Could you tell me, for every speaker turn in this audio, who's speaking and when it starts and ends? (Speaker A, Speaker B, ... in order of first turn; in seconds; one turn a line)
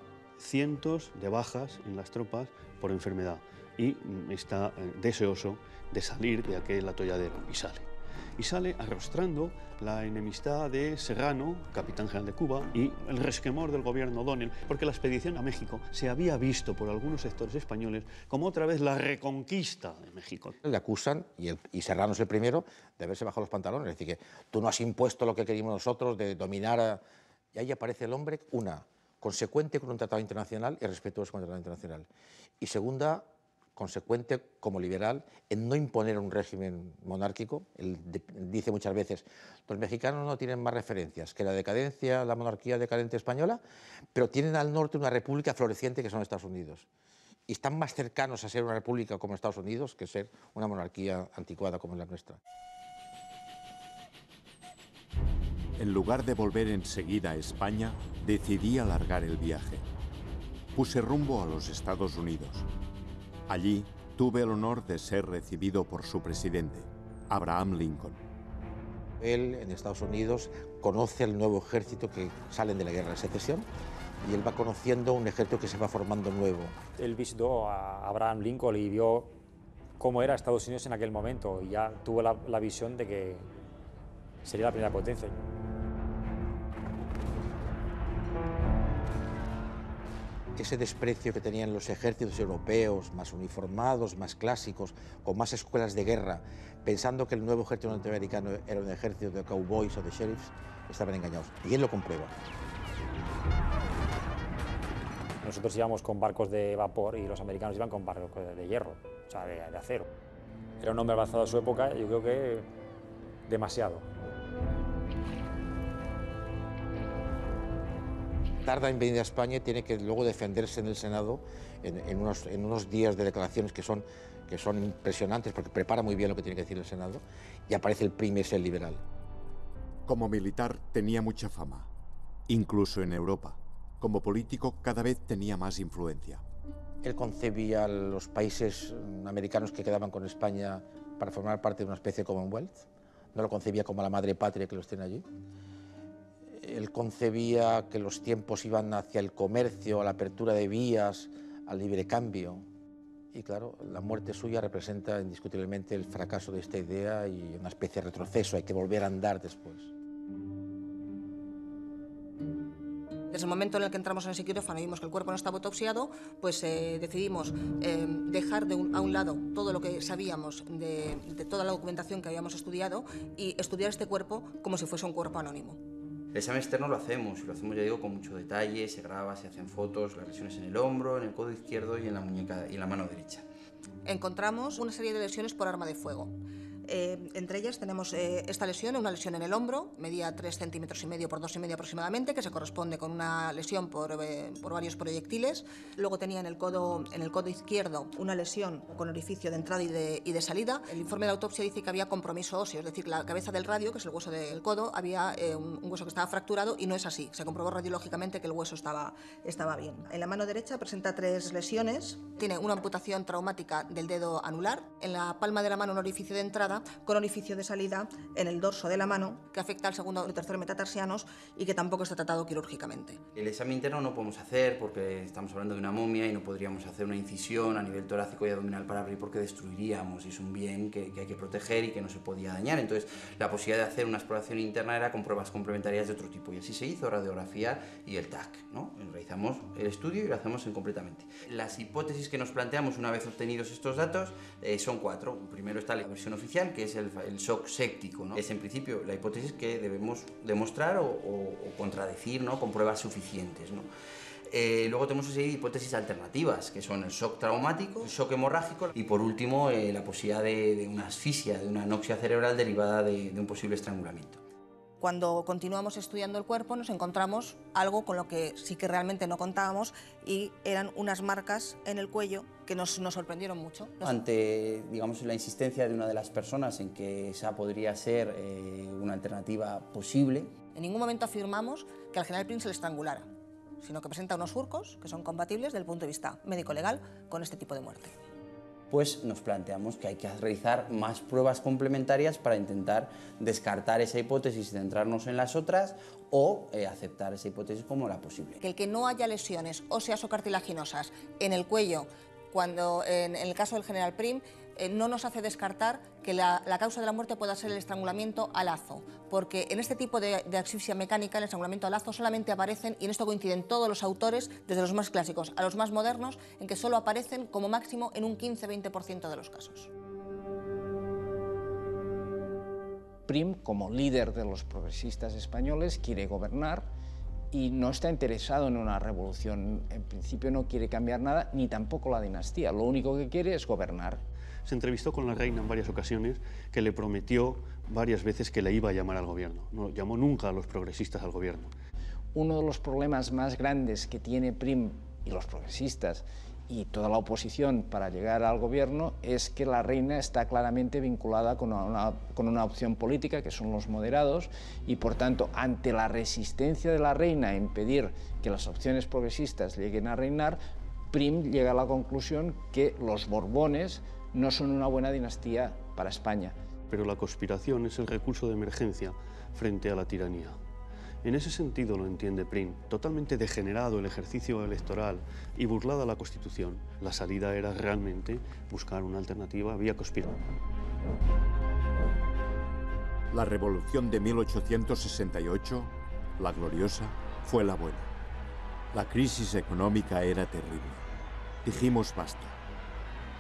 Speaker A: 0.4-20.6
Speaker B: 20.6-27.0
Speaker B: 27.5-32.1
Speaker B: 32.6-43.6
Speaker B: 44.1-46.9
Speaker B: 47.5-52.4
Speaker C: 55.8-59.9
Speaker C: 60.7-62.7
Speaker C: 63.5-68.2
Speaker B: 69.2-73.7
Speaker B: 74.2-76.8
Speaker D: 77.0-79.3
Speaker D: 80.0-83.5
Speaker D: 84.4-85.4
Speaker B: 90.6-102.3
Speaker D: 105.4-110.1
Speaker D: 110.8-112.7
Speaker D: 113.5-114.1
Speaker B: 118.7-129.0
Speaker C: 130.1-131.9
Speaker C: 132.5-136.4
Speaker B: 137.0-145.3
Speaker B: 146.6-152.7
Speaker B: 153.3-159.9
Speaker E: 163.3-175.8
Speaker F: 176.3-183.4
Speaker E: 184.1-186.3
Speaker E: 186.9-223.2
Speaker F: 223.4-253.9
Speaker F: 254.5-264.4
Speaker E: 265.0-274.1
Speaker F: 274.0-280.5
Speaker E: 280.8-283.3
Speaker E: 283.8-288.1
Speaker F: 288.9-298.6
Speaker E: 298.6-319.9
Speaker G: 323.3-326.9
Speaker G: 327.5-334.2
Speaker A: 334.6-341.7
Speaker G: 342.3-360.6
Speaker G: 361.1-366.6
Speaker A: 366.9-370.6
Speaker A: 371.2-380.4
Speaker C: 383.3-388.1
Speaker C: 388.9-391.0
Speaker C: 391.6-392.6